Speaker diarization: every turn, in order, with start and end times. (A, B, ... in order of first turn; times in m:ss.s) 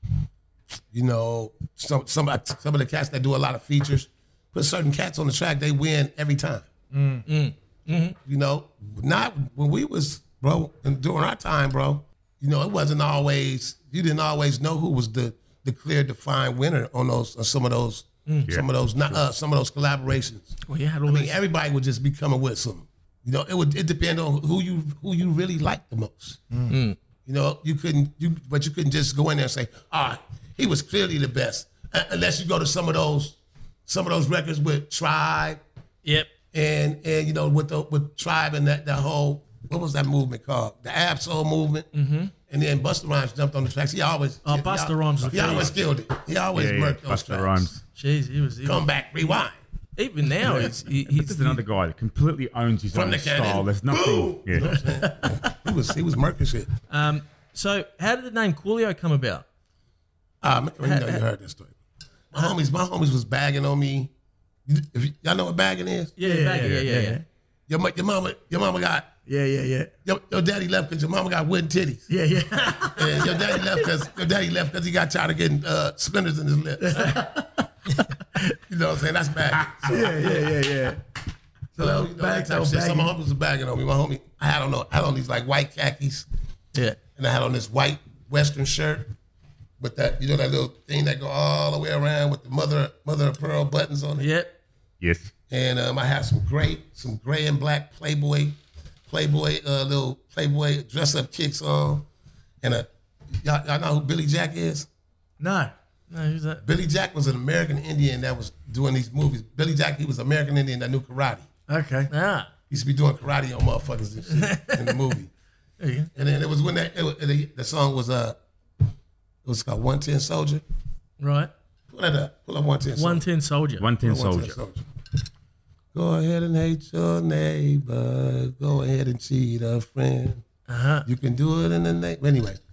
0:00.9-0:06.7 A
0:06.9-0:07.2 B
0:07.3-0:08.2 C
0:08.2-0:26.4 A
0:18.5-0:19.2 D
0:20.7-0:21.4 C
0:26.7-0:27.0 C
0:27.2-0:35.6 A
0:36.0-0:36.3 C
0:36.5-0:41.9 A
0:41.9-0:42.3 C
0:42.5-0:47.7 A
0:44.4-0:45.8 C
0:46.5-0:47.8 D
0:48.0-0:48.9 C
0:48.6-0:49.6 A
0:50.0-0:51.6 C
0:51.0-0:54.8 D
0:52.9-0:56.7 A
0:54.7-0:55.5 C
0:56.9-0:59.5 C
1:00.4-1:01.8 A
1:00.8-1:01.2 C
1:02.3-1:04.1 A
1:04.7-1:06.2 A
1:06.2-1:07.2 C
1:06.2-1:07.2 B
1:07.7-1:09.2 A
1:09.3-1:09.9 B
1:10.0-1:12.1 A
1:12.1-1:13.9 B
1:12.9-1:17.3 A
1:16.8-1:18.5 B
1:18.7-1:20.3 A
1:19.9-1:21.0 B
1:21.8-1:23.1 B
1:21.8-1:26.3 A
1:27.2-1:29.1 A
1:29.8-1:34.3 A
1:34.2-1:34.5 C
1:35.0-1:35.3 D
1:35.5-1:42.1 A
1:42.6-1:44.9 A
1:45.4-1:45.7 B
1:46.1-1:46.6 C
1:46.6-1:51.5 A
1:51.7-1:52.1 B
1:52.1-1:52.5 C
1:52.7-1:55.3 A
1:54.3-1:55.0 C
1:55.8-1:56.1 C
1:56.2-1:58.4 A
1:59.4-2:00.6 A
2:01.2-2:01.5 C
2:01.9-2:03.3 A
2:03.0-2:03.9 C
2:03.8-2:04.6 D
2:04.0-2:04.8 A
2:05.9-2:10.4 A
2:10.7-2:11.1 C
2:11.0-2:12.6 A